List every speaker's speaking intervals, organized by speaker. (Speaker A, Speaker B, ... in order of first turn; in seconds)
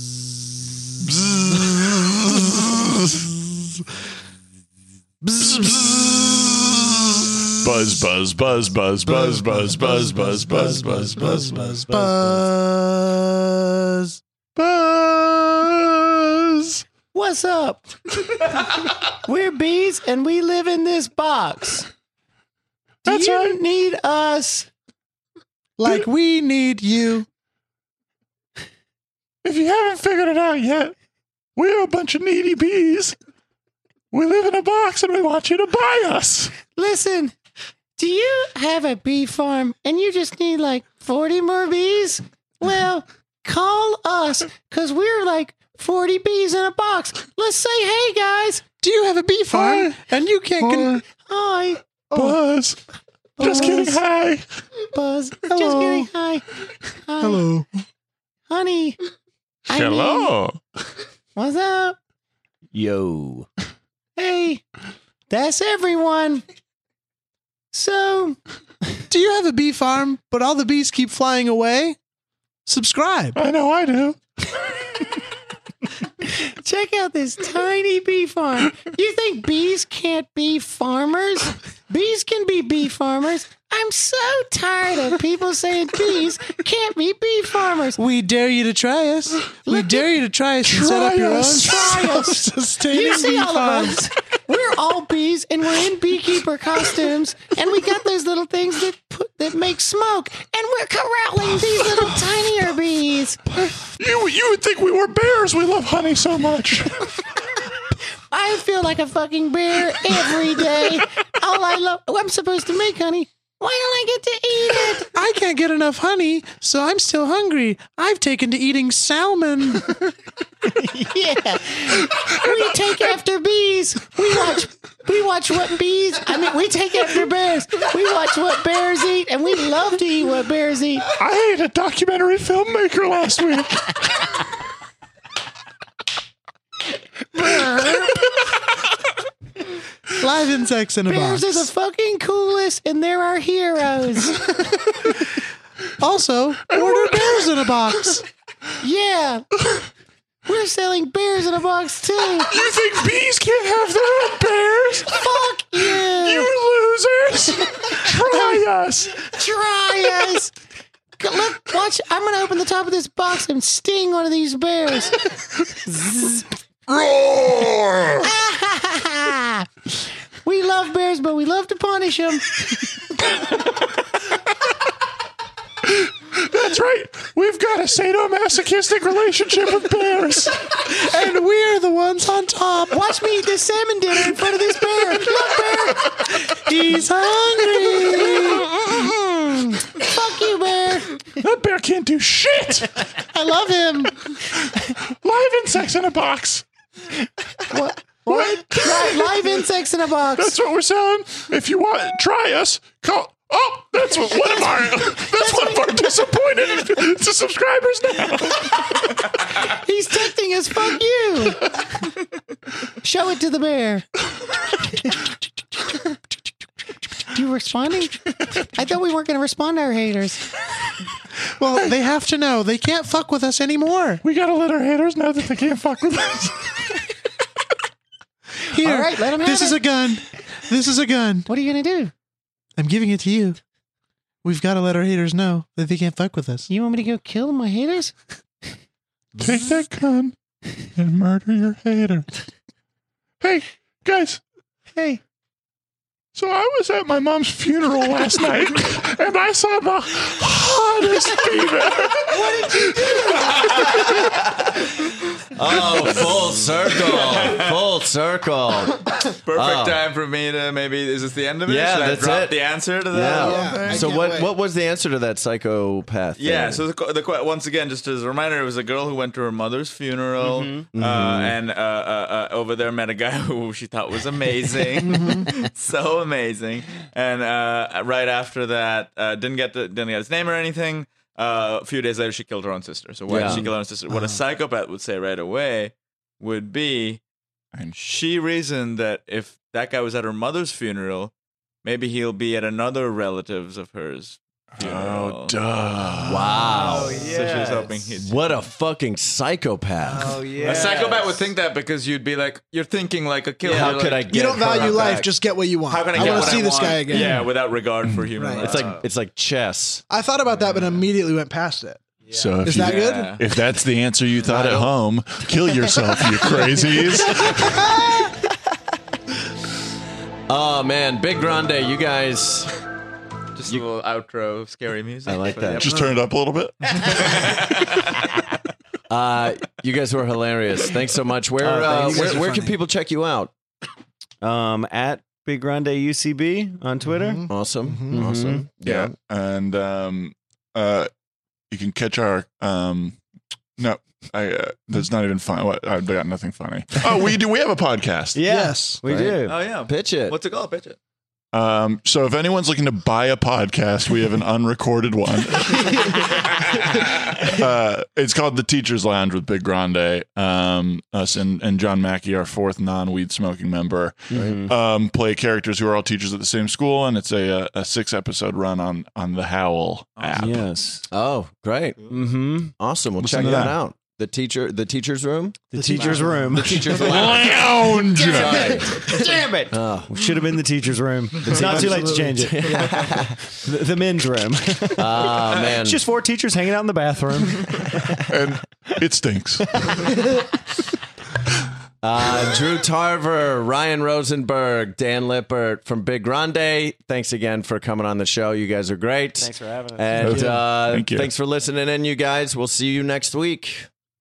Speaker A: 1.2-2.0, 2.7-3.0, 7.6-11.6, 14.6-16.8, 23.1-23.6, 29.4-30.9, 31.6-33.1, 34.1-36.5, 49.5-50.0, 50.6-51.0, 52.1-52.8, 53.4-54.6, 59.7-60.6, 73.3-74.2, 90.7-92.2, 104.0-107.6, 109.9-111.0, 131.2-134.4, 146.7-147.4, 152.5-159.3, 166.9-168.3, 176.0-180.8, 191.2-193.3, 194.3-196.6, 198.3-199.6, 200.4-209.3, 224.2-226.8, 239.4-240.3, 240.9-242.4, 243.4-244.4, 246.3-253.8, 294.8-296.7, 307.1-307.5, 312.3-317.8, 325.8-327.5, 338.8-341.1, 341.7-343.2, 343.8-348.4, 351.5-356.4, 357.3-370.6, 373.2-373.8, 377.0-378.8, 388.3-390.2, 400.2-401.3
Speaker B: 5.2-6.2, 9.1-14.2, 25.8-27.3, 48.8-51.0, 55.5-56.1, 57.2-57.7, 69.1-72.0, 72.7-73.4, 88.0-94.1, 115.1-120.2, 140.2-141.7, 146.0-148.2, 180.8-183.1, 186.4-188.7, 193.7-194.0, 221.6-224.2, 228.7-231.5, 232.8-233.6, 234.4-236.7, 263.3-264.5, 275.1-275.5, 284.1-284.4, 304.3-307.5, 308.4-308.9, 310.1-312.0, 312.6-313.4, 331.7-332.8, 337.0-338.6, 348.5-349.0, 373.4-373.7, 375.8-377.2, 381.6-382.3
Speaker C: 10.7-12.5, 17.1-21.9, 23.0-24.7, 36.8-37.4, 38.0-48.6, 51.3-51.8, 53.4-54.0, 54.9-56.5, 57.1-57.5, 58.5-59.0, 59.7-60.4, 61.4-62.0, 62.7-63.5, 64.2-64.6, 65.3-66.4, 67.7-68.4, 76.3-88.0, 89.7-90.1, 90.8-103.4, 108.3-115.1, 120.7-131.1, 137.3-138.3, 141.1-144.8, 148.8-149.5, 150.5-152.5, 155.1-156.5, 157.7-158.1, 159.2-160.5, 161.2-166.5, 168.2-169.7, 170.4-172.5, 182.9-186.7, 188.1-189.1, 189.6-191.2, 193.3-194.1, 197.7-200.6, 205.3-206.1, 209.6-211.7, 213.0-214.1, 214.8-215.3, 217.3-220.5, 228.7-229.8, 231.5-232.1, 236.7-238.1, 244.9-245.2, 252.3-254.2, 270.4-270.8, 296.7-297.9, 300.0-301.5, 331.6-332.5, 334.4-337.4, 338.1-338.6, 348.3-349.6, 364.4-364.7, 370.3-371.1, 372.1-372.7, 375.7-377.3, 378.1-388.2, 399.4-400.4
Speaker D: 255.5-260.0, 261.7-266.9, 270.9-271.6, 283.3-283.7, 296.2-297.5, 298.2-301.0, 303.6-305.3, 308.6-310.0, 320.5-322.7, 325.3-326.0, 329.1-333.5, 337.5-339.1, 349.0-350.4, 364.3-364.7, 371.1-380.1, 381.4-383.4, 384.9-386.0, 392.0-403.9
Speaker E: 256.9-257.8, 259.4-264.2, 266.4-287.2, 288.0-291.3, 291.8-295.5, 297.2-298.6, 300.6-305.3, 305.8-309.1, 310.6-311.0, 312.7-313.4, 314.4-314.9, 323.6-326.0, 326.9-328.3, 349.5-351.0, 370.2-370.6